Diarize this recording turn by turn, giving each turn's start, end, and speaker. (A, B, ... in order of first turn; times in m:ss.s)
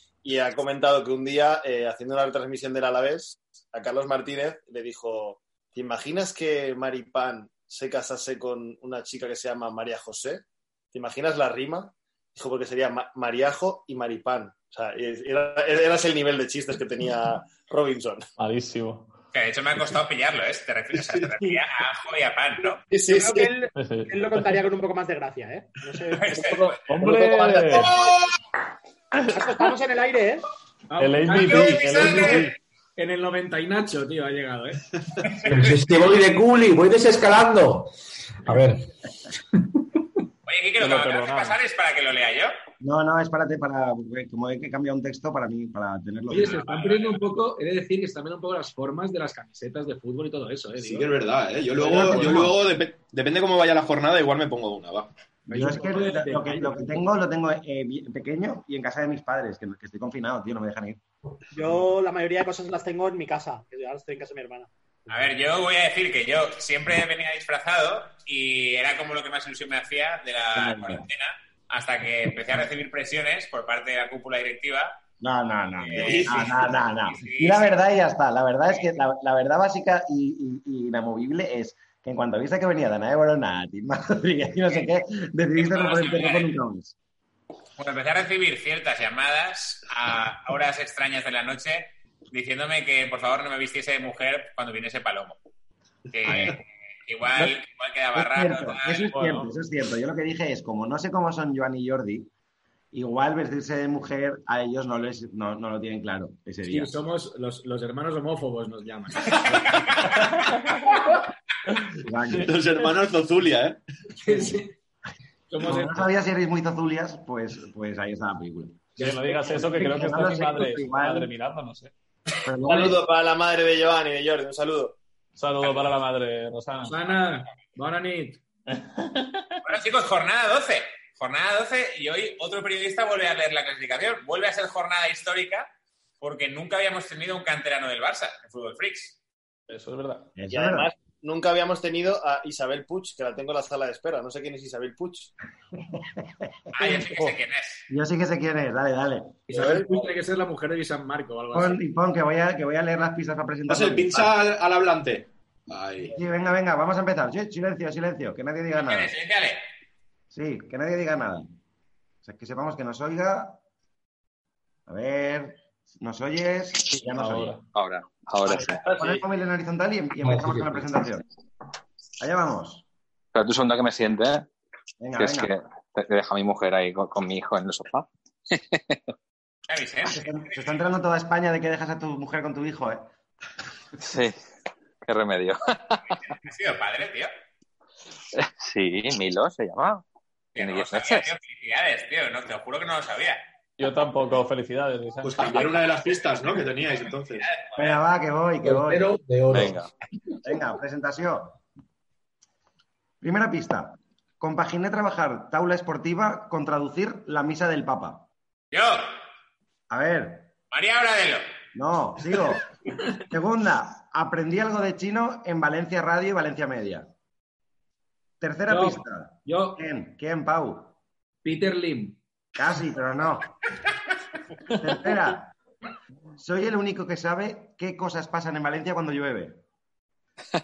0:00.2-0:18.3 A
0:18.4-0:19.1 B
0:19.3-0:22.8 C
0:22.9-0:23.5 A
0:23.1-0:26.4 D
0:23.1-0:23.4 E
0:23.8-0:24.4 B
0:26.2-0:26.8 C
0:26.3-0:28.2 A
0:26.8-0:28.0 B
0:27.8-0:28.1 E
0:29.1-0:29.6 B
0:29.3-0:30.5 D
0:30.9-0:34.9 F
0:31.0-0:32.6 B
0:31.3-0:32.5 C
0:35.2-0:35.9 C
0:35.4-0:38.9 G
0:40.5-0:42.5 C
0:40.8-0:41.6 B
0:42.8-0:46.6 H
0:46.3-0:51.1 F
0:46.3-0:47.2 C
0:50.8-0:55.1 E
0:51.7-0:52.5 F
0:55.5-1:01.0 H
0:55.5-0:57.0 F
1:01.5-1:04.7 D
1:05.1-1:15.0 C
1:10.5-1:11.1 H
1:15.2-1:27.0 H
1:15.8-1:17.8 C
1:16.0-1:16.7 E
1:25.6-1:26.5 C
1:27.8-1:35.4 C
1:36.1-1:39.1 C
1:38.2-1:42.3 H
1:39.1-1:39.5 B
1:42.9-1:47.0 H
1:46.6-1:50.1 F
1:52.0-1:52.6 H
1:52.4-1:53.8 E
1:54.2-1:54.8 F
1:55.5-1:56.0 F
1:55.6-2:01.3 H
1:59.0-2:01.9 B
1:59.0-2:00.1 F
2:02.4-2:03.0 H
2:02.7-2:05.0 A
2:05.4-2:07.0 B
2:06.9-2:08.4 F
2:08.7-2:09.6 B
2:09.6-2:19.2 C
2:19.7-2:20.3 B
2:20.4-2:20.9 H
2:20.5-2:25.3 A
2:25.9-2:26.3 H
2:26.7-2:27.8 C
2:26.8-2:27.4 B
2:27.9-2:29.4 H
2:29.5-2:31.8 F
2:29.6-2:30.1 A
2:31.5-2:34.3 H
2:33.7-2:36.2 E
2:36.1-2:39.1 H
2:38.8-2:39.6 C
2:40.3-2:41.5 H
2:42.2-2:43.6 H
2:44.9-2:47.6 H
2:47.1-2:47.6 B
2:47.7-2:48.8 I
2:48.5-2:49.2 A
2:48.8-2:51.2 H
2:50.2-2:50.8 G
2:52.2-2:52.8 H
2:53.3-2:54.5 I
2:55.0-2:55.5 H
2:55.2-2:59.0 I
2:59.7-3:00.7 C
3:00.1-3:03.0 H
3:04.0-3:04.4 I
3:05.0-3:06.0 I
3:06.2-3:07.3 C
3:08.3-3:10.1 I
3:10.6-3:13.4 C
3:10.6-3:11.3 I
3:13.8-3:15.8 B
3:15.2-3:17.6 E
3:17.4-3:18.0 C
3:17.8-3:19.1 H
3:18.6-3:19.8 G
3:19.5-3:19.9 I
3:20.4-3:21.6 H
3:23.2-3:28.3 H
3:28.7-3:29.2 C
3:29.9-3:30.5 H
3:30.7-3:31.4 C
3:31.7-3:32.7 H
3:33.2-3:37.1 H
3:38.4-3:40.9 H
3:38.7-3:39.8 F
3:41.4-3:42.2 F
3:42.6-3:43.6 H
3:44.7-3:45.5 H
3:46.4-3:49.6 H